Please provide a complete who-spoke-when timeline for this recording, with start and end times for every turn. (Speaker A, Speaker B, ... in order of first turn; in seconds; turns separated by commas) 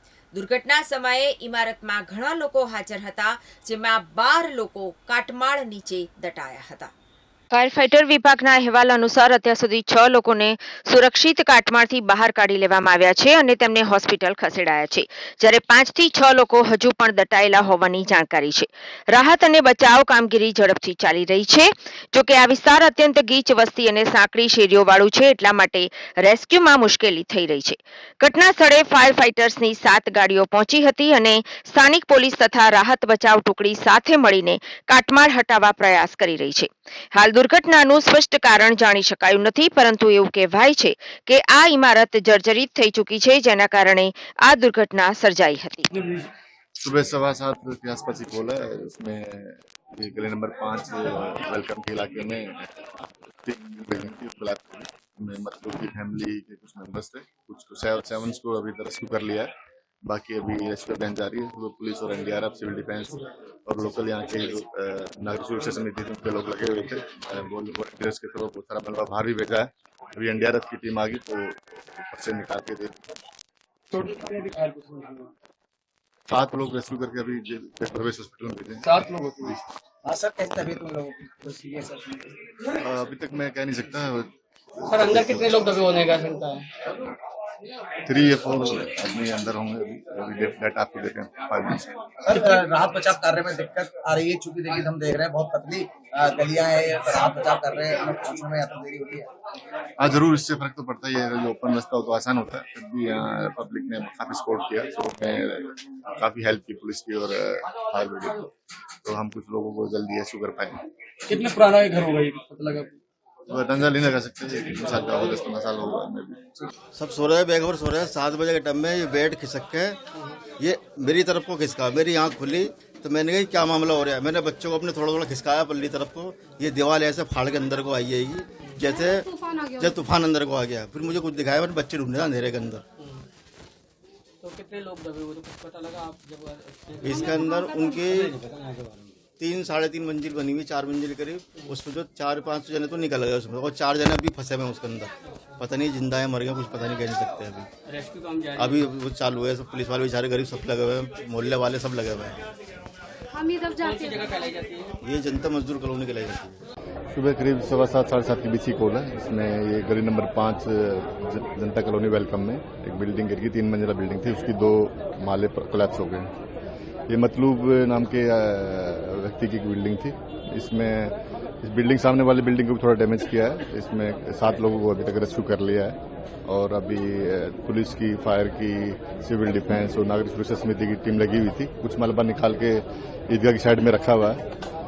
Speaker A: 0.3-6.9, Speaker A: 7.5-45.9, Speaker B: 45.9-46.3, Speaker C: 46.8-59.5, Speaker C: 60.0-73.0, Speaker B: 73.9-75.3, Speaker C: 76.3-79.6, Speaker B: 78.8-79.5, Speaker D: 80.0-82.5, Speaker C: 82.7-84.3, Speaker C: 84.8-85.7, Speaker B: 84.9-86.7, Speaker C: 88.0-92.0, Speaker D: 92.2-99.3, Speaker B: 92.3-92.6, Speaker C: 100.0-108.5, Speaker C: 109.0-110.8, Speaker B: 111.3-113.0, Speaker C: 113.5-116.4, Speaker E: 116.9-120.0, Speaker E: 120.6-132.8, Speaker F: 128.8-129.9, Speaker B: 133.0-133.2, Speaker B: 134.4-137.5, Speaker E: 137.0-138.4, Speaker F: 137.2-138.2, Speaker B: 138.4-139.0, Speaker E: 139.4-147.7, Speaker B: 147.8-148.8, Speaker E: 148.6-152.4, Speaker F: 153.3-154.5, Speaker B: 153.8-154.9, Speaker E: 155.0-156.6, Speaker C: 157.1-166.3, Speaker C: 167.1-184.4